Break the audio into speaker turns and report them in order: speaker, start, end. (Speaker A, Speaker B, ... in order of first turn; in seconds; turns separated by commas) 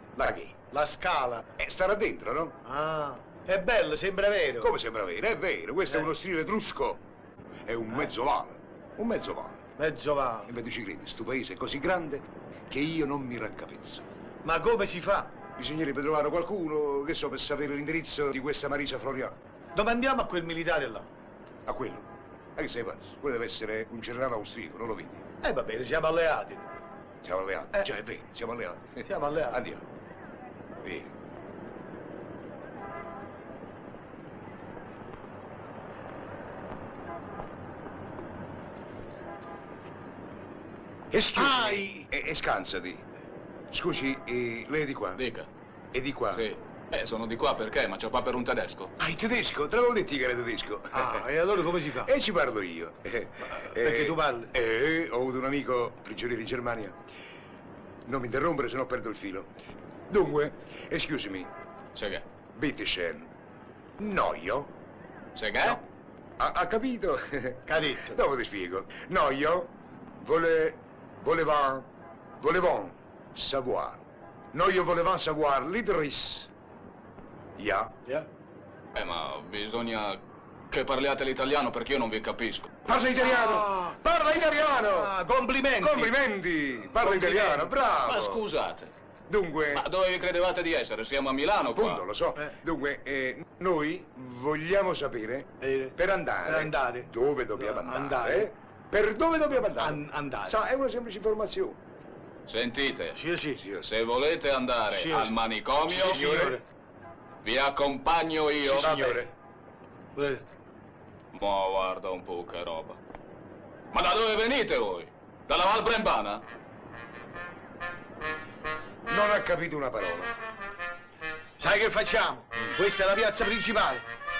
Speaker A: 0.2-0.6, Speaker B: 0.7-1.4, Speaker A: 1.6-2.6, Speaker B: 2.6-4.8, Speaker A: 4.6-7.0, Speaker A: 7.7-9.6, Speaker B: 9.8-10.5, Speaker A: 10.5-14.0, Speaker B: 14.4-15.3, Speaker A: 15.6-19.4, Speaker B: 19.8-21.1, Speaker A: 21.6-25.2, Speaker B: 25.4-26.7, Speaker A: 27.2-29.8, Speaker B: 29.0-29.6, Speaker A: 30.8-31.1, Speaker A: 41.1-43.0, Speaker B: 41.3-42.1, Speaker A: 43.7-45.2, Speaker C: 45.2-45.5, Speaker A: 45.9-46.5, Speaker C: 46.3-48.9, Speaker A: 49.0-51.2, Speaker B: 50.9-52.1, Speaker A: 51.9-57.0, Speaker B: 53.5-54.5, Speaker A: 58.0-59.5, Speaker A: 60.1-61.5, Speaker C: 61.9-62.2, Speaker A: 62.5-63.3, Speaker A: 64.0-64.7, Speaker C: 65.4-65.8, Speaker A: 66.4-71.9, Speaker B: 67.7-68.2, Speaker A: 72.4-76.5, Speaker A: 77.6-77.9, Speaker C: 78.9-82.7, Speaker A: 82.8-85.1, Speaker B: 83.2-84.0, Speaker B: 84.8-86.2, Speaker A: 85.8-88.4, Speaker B: 86.9-87.7, Speaker C: 88.0-88.9, Speaker A: 89.3-89.9, Speaker C: 89.7-92.0, Speaker A: 91.7-101.8, Speaker B: 95.6-98.5, Speaker B: 99.6-100.6, Speaker C: 102.5-106.3, Speaker B: 103.2-103.6, Speaker B: 104.9-105.4, Speaker A: 105.9-106.6, Speaker B: 105.9-106.6, Speaker C: 107.4-108.9, Speaker B: 108.6-109.3, Speaker A: 108.7-109.3, Speaker B: 110.2-110.4, Speaker C: 111.3-113.0, Speaker C: 113.9-116.4, Speaker A: 119.1-120.3, Speaker B: 121.6-124.0